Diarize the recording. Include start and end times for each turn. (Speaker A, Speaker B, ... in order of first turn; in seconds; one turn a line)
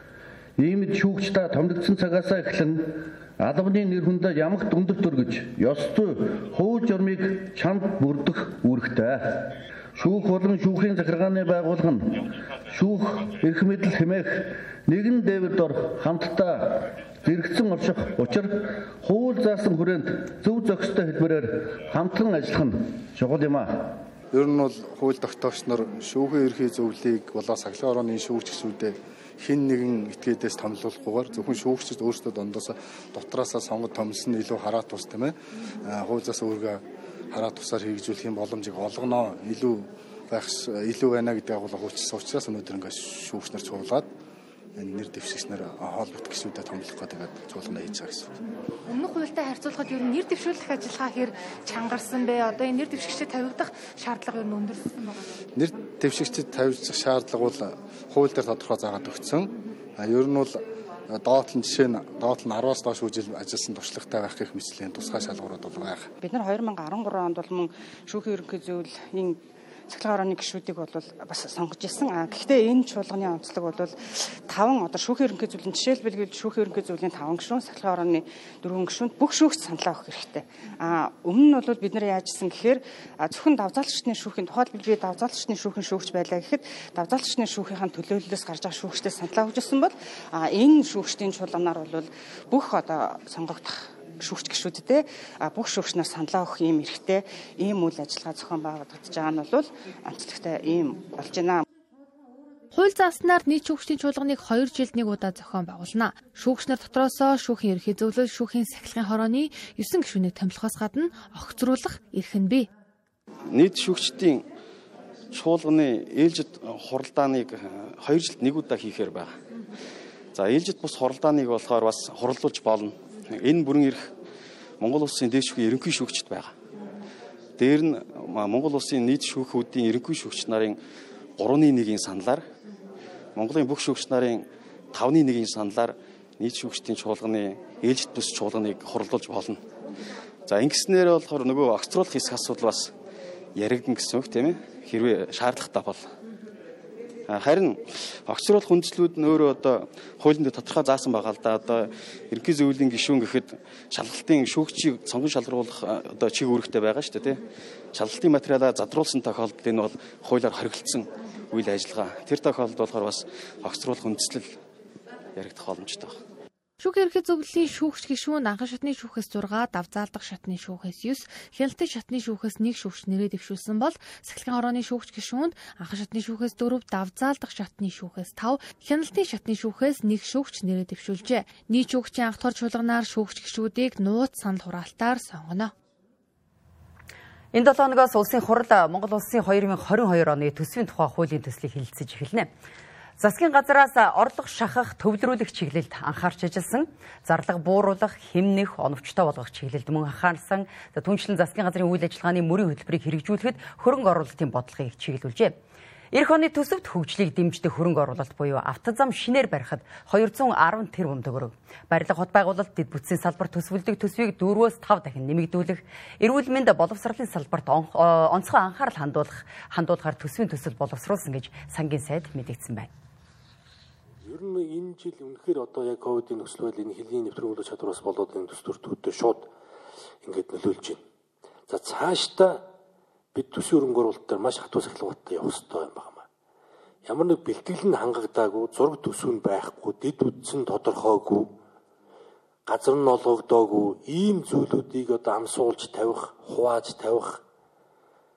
Speaker A: 0.6-24.0
Speaker B: 24.3-36.8
Speaker B: 37.3-44.1
Speaker B: 44.8-48.4
Speaker C: 48.9-55.2
Speaker B: 55.6-66.1
Speaker D: 66.2-74.0
Speaker D: 74.5-101.6
Speaker C: 102.7-112.7
Speaker E: 113.5-114.5
Speaker E: 115.3-119.3
Speaker E: 120.3-124.1
Speaker E: 124.8-126.5
Speaker E: 127.6-130.8
Speaker E: 131.4-132.4
Speaker E: 133.3-139.6
Speaker E: 140.5-142.9
Speaker E: 143.6-146.1
Speaker E: 147.3-157.4
Speaker E: 157.9-164.5
Speaker E: 165.4-166.1
Speaker C: 166.8-185.7
Speaker F: 187.5-192.5
Speaker F: 193.2-205.6
Speaker F: 206.1-222.9
Speaker G: 224.2-229.5
Speaker G: 230.2-231.0
Speaker G: 231.7-232.7
Speaker G: 233.3-236.3
Speaker G: 237.1-241.5
Speaker G: 242.7-247.4